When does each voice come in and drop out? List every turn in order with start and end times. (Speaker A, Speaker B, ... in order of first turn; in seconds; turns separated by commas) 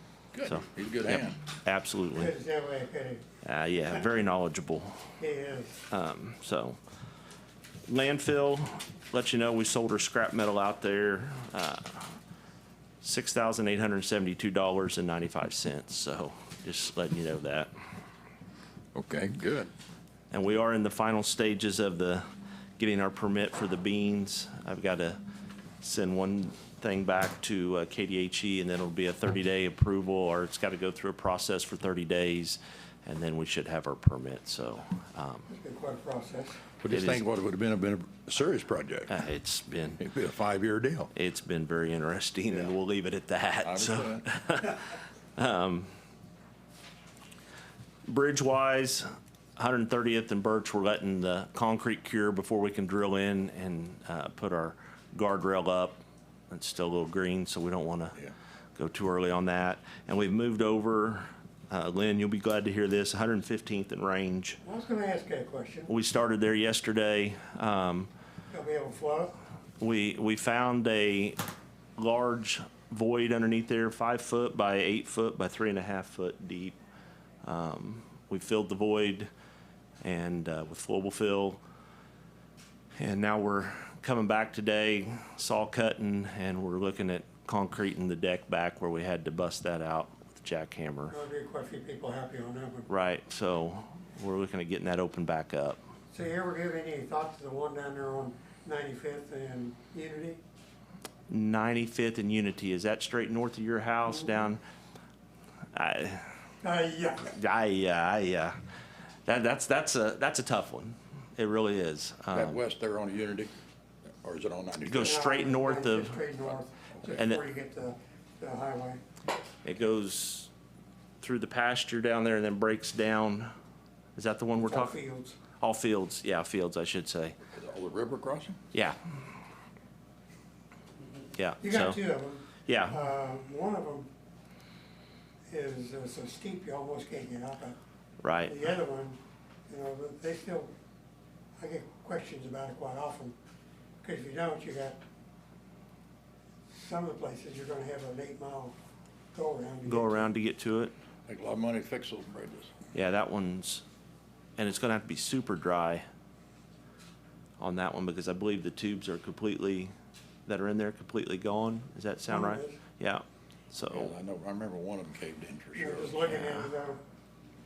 Speaker A: 0.3-1.4, Speaker B: 0.5-2.3, Speaker C: 2.1-3.2, Speaker B: 3.4-5.0, Speaker C: 5.2-5.8, Speaker B: 5.9-6.8, Speaker B: 7.9-12.2, Speaker B: 13.0-17.7, Speaker A: 18.9-19.7, Speaker B: 20.3-22.2, Speaker B: 22.8-25.2, Speaker B: 25.8-35.5, Speaker C: 35.5-36.6, Speaker A: 36.8-39.2, Speaker B: 36.9-37.2, Speaker B: 39.1-40.0, Speaker A: 40.0-41.1, Speaker B: 41.1-45.9, Speaker A: 43.6-44.3, Speaker B: 48.0-58.2, Speaker B: 58.8-64.6, Speaker C: 64.6-65.9, Speaker B: 65.9-68.1, Speaker C: 68.5-69.3, Speaker B: 69.8-71.4, Speaker B: 72.0-76.8, Speaker B: 77.4-79.3, Speaker B: 80.0-81.6, Speaker B: 83.0-91.2, Speaker C: 91.1-92.9, Speaker B: 92.9-95.8, Speaker C: 96.1-100.4, Speaker B: 101.3-104.6, Speaker B: 105.7-106.4, Speaker C: 106.6-107.3, Speaker B: 107.2-108.6, Speaker B: 109.2-112.6, Speaker A: 112.3-113.5, Speaker A: 114.2-115.2, Speaker B: 114.8-116.3, Speaker C: 115.0-119.0, Speaker B: 117.1-117.4, Speaker B: 119.6-120.5, Speaker B: 121.2-123.5, Speaker B: 124.2-125.0, Speaker C: 124.6-125.4, Speaker B: 125.6-127.4, Speaker A: 127.5-128.6, Speaker B: 128.7-129.0, Speaker B: 131.4-132.0, Speaker C: 131.6-134.1, Speaker B: 132.7-133.0, Speaker C: 135.5-137.8, Speaker B: 138.2-138.7, Speaker C: 138.4-140.7, Speaker C: 141.6-143.4, Speaker C: 144.0-145.0, Speaker C: 146.7-148.7, Speaker C: 149.3-150.3, Speaker B: 149.8-150.9, Speaker A: 151.3-152.7, Speaker B: 152.9-153.8, Speaker B: 154.6-156.0, Speaker B: 157.6-159.9, Speaker B: 160.5-164.1, Speaker C: 162.3-162.8, Speaker A: 163.9-166.6, Speaker C: 165.7-167.0